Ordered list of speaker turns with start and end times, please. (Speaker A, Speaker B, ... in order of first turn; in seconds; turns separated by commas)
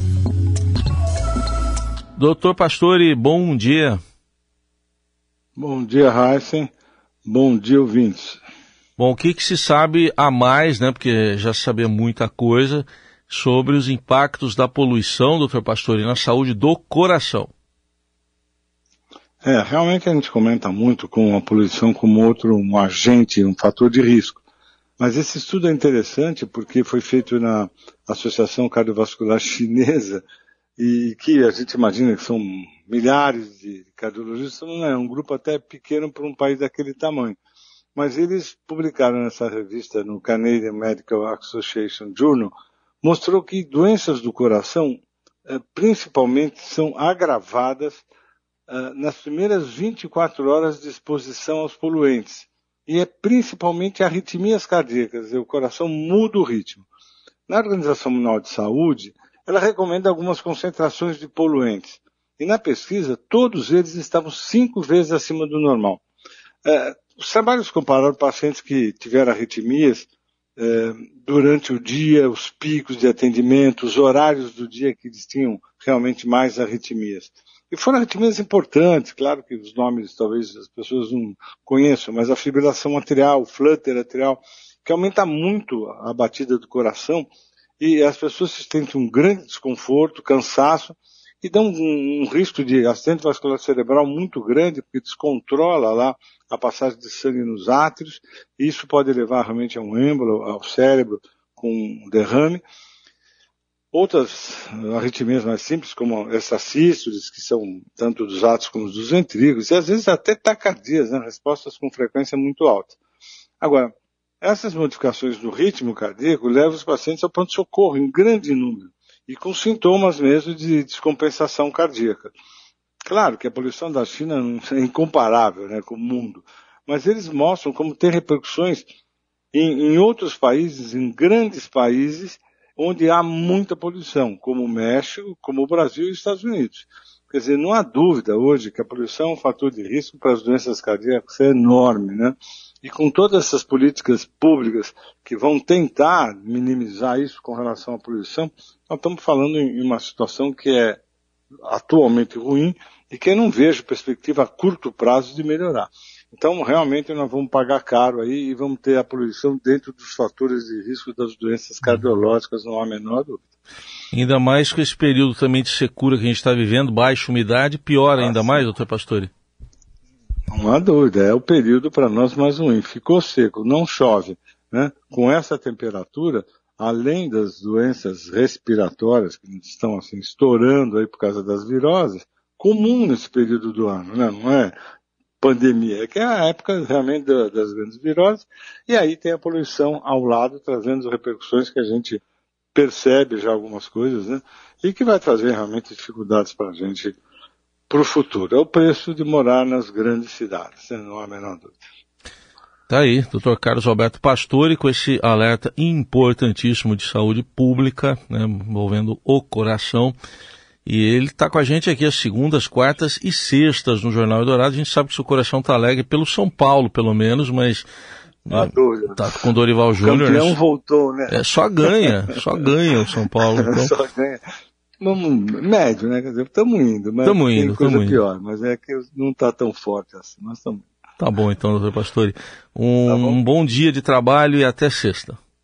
Speaker A: 2.2-4.0, Speaker B: 5.5-6.7, Speaker B: 7.2-8.4, Speaker A: 9.0-17.5, Speaker B: 19.4-24.4, Speaker B: 25.0-30.2, Speaker B: 30.8-37.4, Speaker B: 37.9-48.0, Speaker B: 48.7-56.9, Speaker B: 57.5-66.0, Speaker B: 66.6-87.3, Speaker B: 87.8-102.6, Speaker B: 103.9-113.0, Speaker B: 113.6-122.3, Speaker B: 123.1-128.9, Speaker B: 129.5-151.0, Speaker B: 151.6-163.5, Speaker A: 164.1-169.3, Speaker B: 168.2-168.6, Speaker B: 170.5-184.7, Speaker B: 185.4-192.2, Speaker B: 192.7-197.2, Speaker B: 197.9-201.8, Speaker A: 202.9-210.1, Speaker A: 210.8-217.9, Speaker A: 218.4-220.6, Speaker B: 218.5-219.3, Speaker B: 220.0-222.1, Speaker A: 221.3-223.9, Speaker B: 223.6-224.4, Speaker B: 225.0-230.9, Speaker A: 227.2-228.2, Speaker A: 231.2-235.4, Speaker B: 233.1-233.4